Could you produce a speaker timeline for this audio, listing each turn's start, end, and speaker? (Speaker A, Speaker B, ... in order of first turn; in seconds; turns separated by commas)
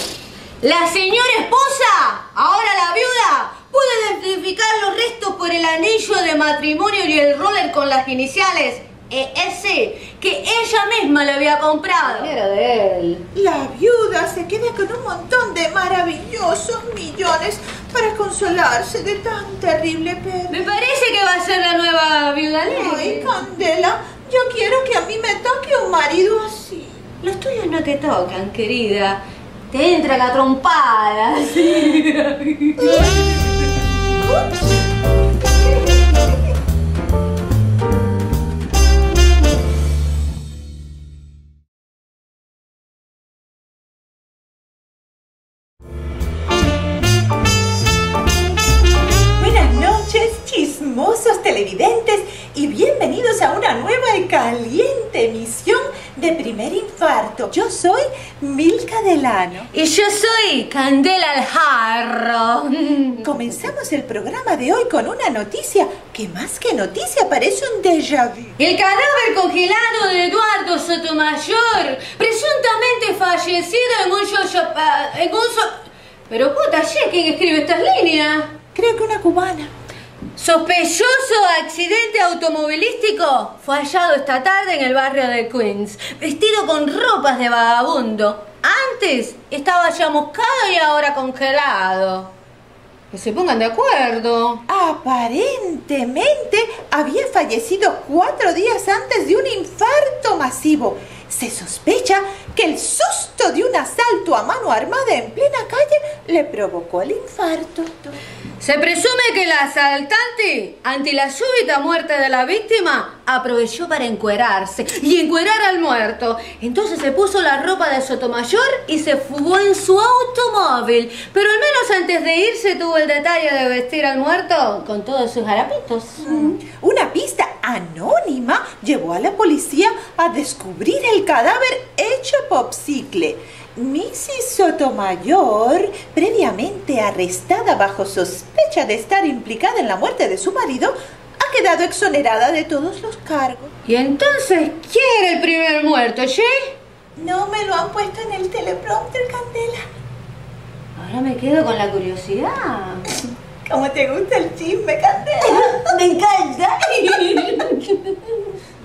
Speaker A: 0.6-13.2, Speaker B: 13.3-20.7, Speaker A: 20.5-23.4, Speaker B: 22.7-27.0, Speaker A: 27.2-33.1, Speaker B: 34.2-34.6, Speaker B: 49.4-59.7, Speaker A: 59.7-63.3, Speaker B: 63.2-68.5, Speaker A: 68.6-75.7, Speaker A: 76.3-78.5, Speaker B: 78.7-79.7, Speaker A: 80.4-92.3, Speaker A: 93.1-94.6, Speaker B: 94.7-108.2, Speaker A: 108.6-126.6, Speaker B: 126.2-143.7, Speaker A: 143.8-146.8, Speaker B: 147.2-149.8, Speaker A: 150.9-153.0, Speaker B: 153.7-155.9, Speaker A: 155.4-158.4